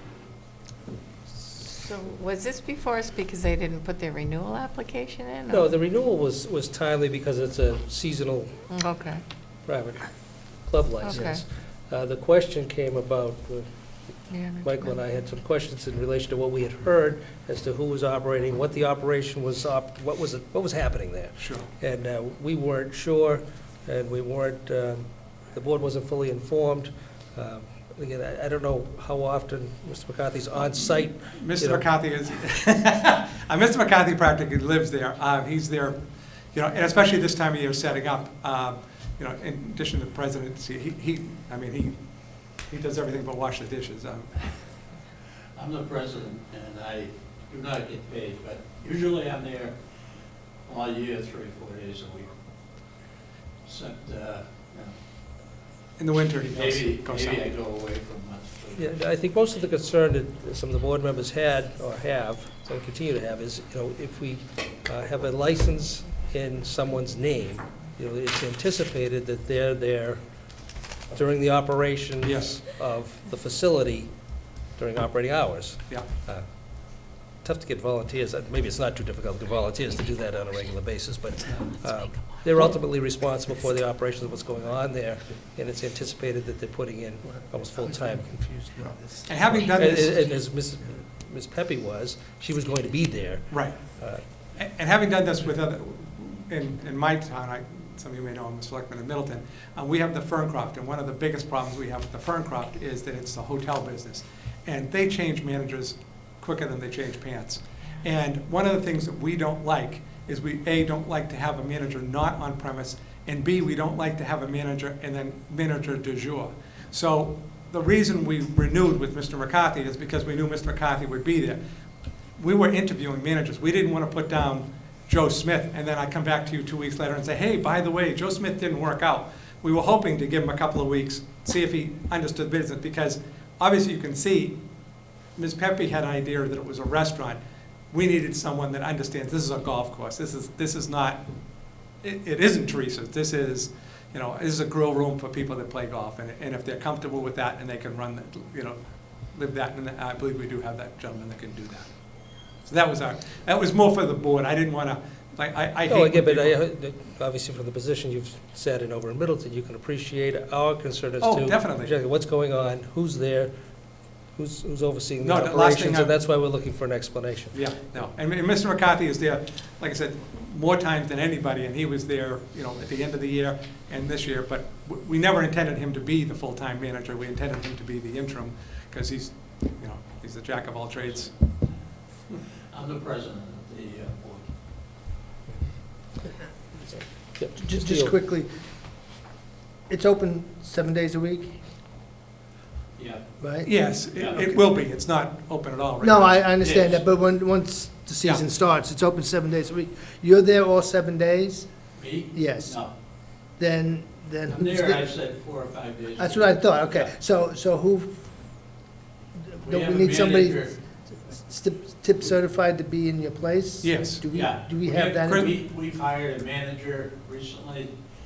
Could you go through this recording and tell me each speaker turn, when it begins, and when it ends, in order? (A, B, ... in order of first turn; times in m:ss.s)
0:01.5-0:05.6 A
0:05.5-0:08.6 B
0:08.7-0:09.2 A
0:09.7-0:31.9 B
0:11.0-0:11.4 A
0:14.3-0:14.9 A
0:21.4-0:21.7 C
0:30.7-0:36.0 C
0:36.5-0:44.5 C
0:45.6-0:49.8 D
0:50.6-0:52.3 D
0:53.6-0:55.0 D
0:56.0-0:57.5 C
0:56.4-0:59.0 D
0:58.8-1:10.2 B
1:11.1-1:14.1 B
1:12.2-1:12.6 C
1:14.8-1:16.5 B
1:17.4-1:28.5 B
1:27.3-1:29.6 E
1:29.3-1:30.2 C
1:29.5-1:34.2 B
1:33.5-1:33.8 C
1:34.6-2:01.6 C
2:02.4-2:14.6 C
2:15.4-2:17.4 C
2:17.9-2:21.2 C
2:21.9-2:28.8 C
2:29.3-2:31.9 C
2:32.6-2:36.6 C
2:35.9-2:43.5 B
2:41.2-2:41.9 C
2:44.4-2:47.6 B
2:45.2-2:46.1 C
2:47.5-3:01.3 C
3:02.7-3:04.5 D
3:06.9-3:08.2 B
3:07.6-3:08.5 E
3:09.9-3:11.6 E
3:13.0-3:13.2 D
3:13.4-3:13.7 E
3:13.6-3:16.5 C
3:14.1-3:14.6 D
3:16.0-3:21.7 E
3:16.6-3:17.0 D
3:22.0-3:22.9 D
3:22.3-3:22.8 E
3:23.6-3:25.1 E
3:24.5-3:27.1 D
3:26.2-3:28.4 E
3:29.4-3:30.7 E
3:29.7-3:30.8 D
3:31.2-3:35.5 E
3:33.8-3:34.2 C
3:34.3-3:37.9 D
3:35.2-3:35.6 C